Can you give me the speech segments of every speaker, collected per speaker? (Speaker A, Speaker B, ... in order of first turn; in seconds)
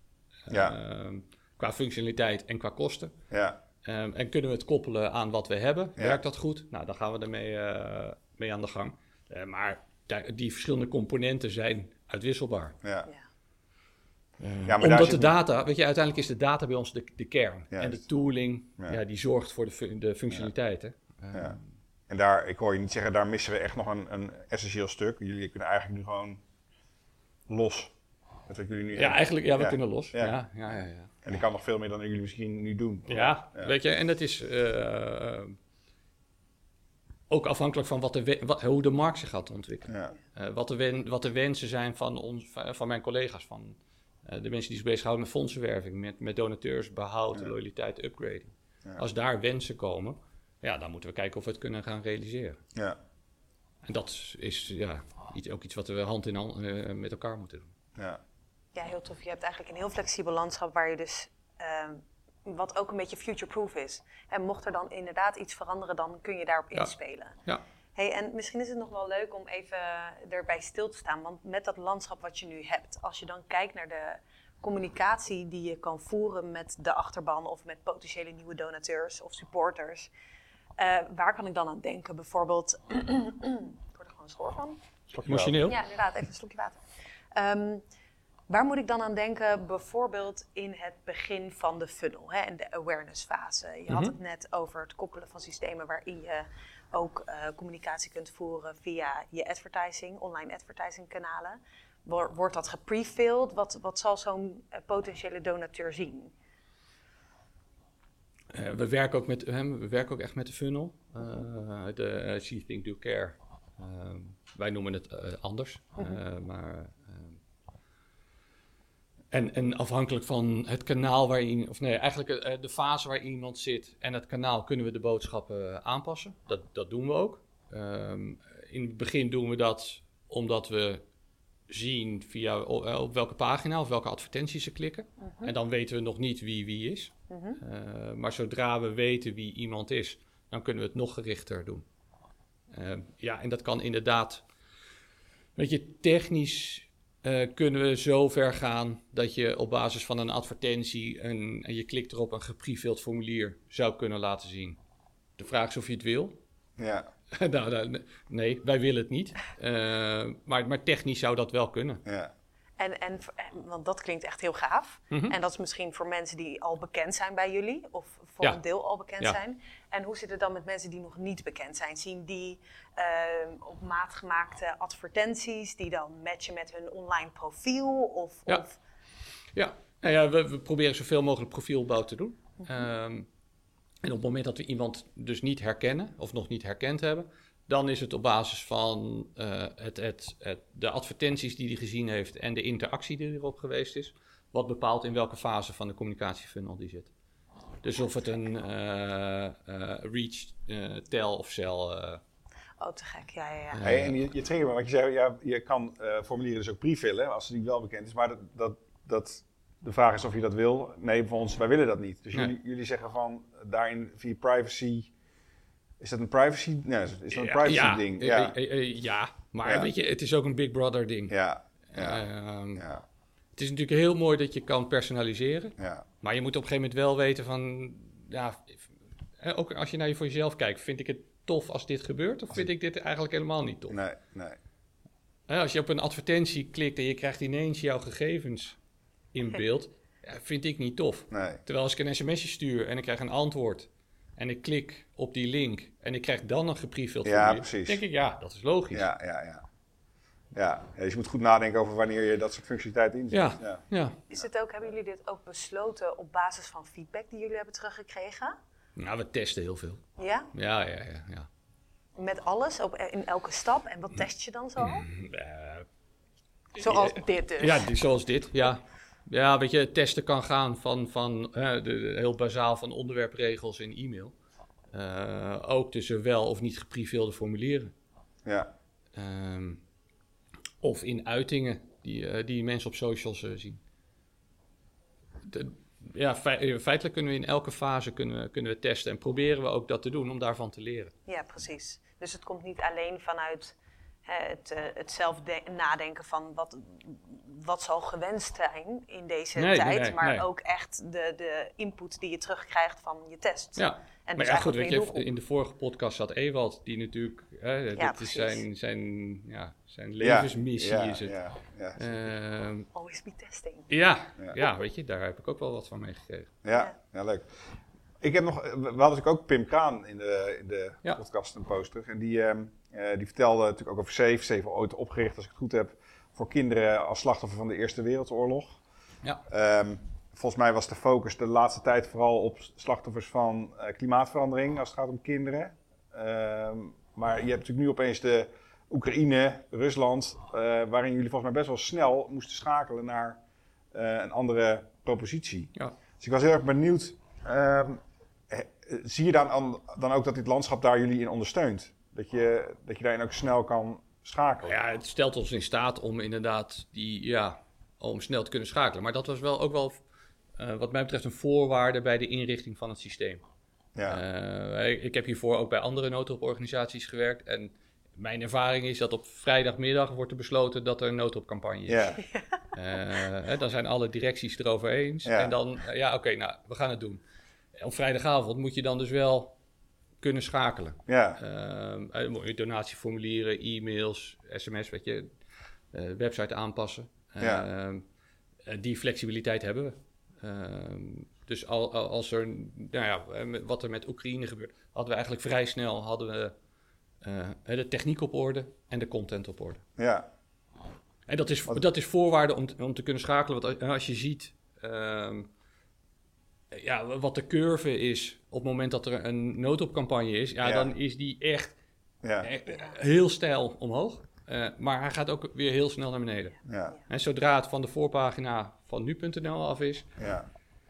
Speaker A: 0.5-3.1, 3.8-12.8, 14.4-21.6, 28.9-31.1, 33.1-35.6, 37.3-52.6, 53.8-57.7, 85.2-85.8, 93.9-94.1, 108.5-117.4, 119.3-131.0, 131.7-141.8, 142.7-144.4, 145.6-154.8, 155.4-156.4, 157.3-162.0, 165.1-165.4, 179.5-183.3, 184.0-197.1, 197.8-202.2, 203.7-204.2, 217.3-221.3, 221.9-222.8, 223.6-228.8, 229.4-234.0, 235.5-238.8, 239.3-249.1, 253.3-254.2, 258.9-261.5, 264.8-265.9, 266.8-274.3, 274.9-277.9, 279.1-279.8, 280.8-283.8, 285.4-291.1, 299.6-300.4, 303.8-311.4, 312.0-312.9, 313.9-316.5, 354.6-360.0, 360.6-363.4, 364.1-372.2, 372.7-377.2, 377.7-379.5, 380.2-385.3, 385.9-388.0, 388.6-396.5, 397.2-399.8, 401.3-405.5, 406.7-411.8, 412.4-420.1
Speaker B: 0.5-0.8, 3.3-3.6, 12.8-13.1, 14.6-15.3, 17.7-18.0, 21.3-21.6, 22.1-26.4, 27.5-27.9, 28.5-30.4, 31.2-33.7, 39.9-40.1, 58.0-58.2, 85.1-85.7, 156.8-157.1, 162.0-162.3, 203.8-215.1, 216.0-218.6, 219.6-219.9, 221.3-222.2, 222.7-223.0, 225.8-226.0, 233.9-234.6, 241.3-241.6, 247.2-248.0, 248.9-249.6, 250.5-253.8, 278.4-278.7, 310.2-312.3, 316.6-317.5, 318.2-328.8, 329.5-343.4, 343.9-354.8, 363.9-364.2, 371.9-372.2, 375.2-375.5, 381.1-381.4, 387.4-387.7, 400.0-400.3, 410.6-410.9, 412.2-412.5, 416.6-417.0, 420.2-420.5
Speaker C: 58.7-67.4, 67.9-80.1, 80.8-84.8, 85.7-86.8, 87.3-87.8, 88.5-106.3, 135.2-135.5, 137.3-137.6, 162.8-178.8, 202.8-203.8, 254.3-258.6, 260.2-260.5, 262.1-265.1, 266.8-267.9, 291.3-305.3, 307.9-308.6, 312.9-313.9, 412.7-412.9